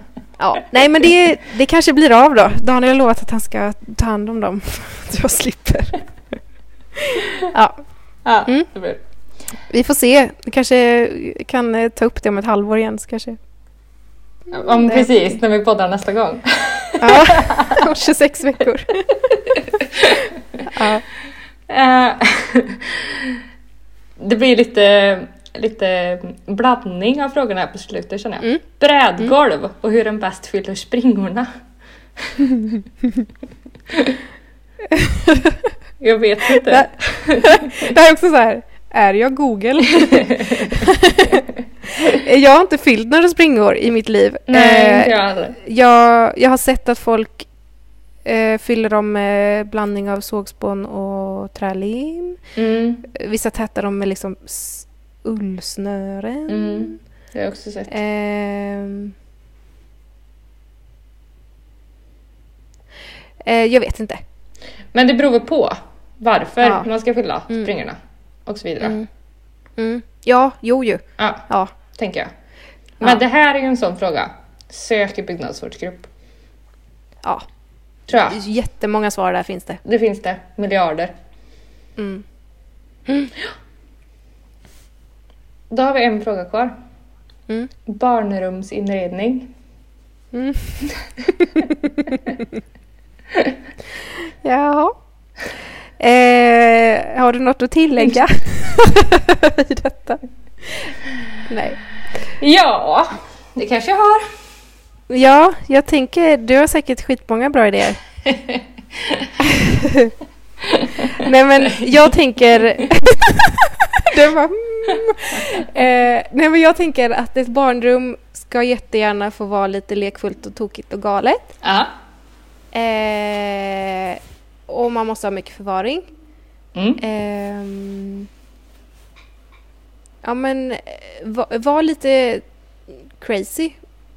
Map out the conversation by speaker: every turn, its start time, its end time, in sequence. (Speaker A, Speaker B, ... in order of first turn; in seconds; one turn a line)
Speaker A: 0.4-6.0
Speaker A: 7.0-7.8
Speaker B: 8.2-9.0
Speaker A: 9.7-13.4
Speaker B: 14.5-17.9
Speaker A: 14.6-15.3
Speaker A: 17.0-19.0
Speaker B: 19.1-20.6
Speaker A: 20.7-21.0
Speaker B: 21.7-23.4
Speaker B: 24.2-31.5
Speaker B: 32.2-32.6
Speaker B: 33.9-34.2
Speaker A: 34.9-35.7
Speaker B: 36.0-37.9
Speaker A: 36.5-47.5
Speaker B: 39.9-40.9
Speaker B: 44.5-45.6
Speaker A: 48.2-52.4
Speaker B: 52.5-53.0
Speaker A: 53.1-57.0
Speaker B: 56.5-57.9
Speaker A: 57.9-59.1
Speaker A: 63.4-64.2
Speaker B: 64.9-69.0
Speaker A: 66.6-66.9
Speaker A: 68.8-69.1
Speaker A: 69.8-71.7
Speaker B: 71.2-72.3
Speaker B: 73.0-76.1
Speaker B: 78.1-78.4
Speaker A: 78.1-79.8
Speaker B: 79.8-81.1
Speaker A: 82.0-82.2
Speaker A: 83.1-83.3
Speaker B: 85.7-86.7
Speaker B: 87.8-89.5
Speaker A: 90.3-90.9
Speaker B: 93.3-93.6
Speaker A: 94.2-95.0
Speaker A: 96.0-101.8
Speaker B: 102.4-104.3
Speaker A: 105.1-108.0
Speaker B: 108.2-109.3
Speaker A: 109.4-110.1
Speaker B: 110.6-111.8
Speaker A: 111.1-121.5
Speaker B: 114.9-115.5
Speaker B: 121.6-121.9
Speaker A: 122.7-126.1
Speaker B: 126.7-127.0
Speaker A: 127.0-128.3
Speaker A: 130.2-133.8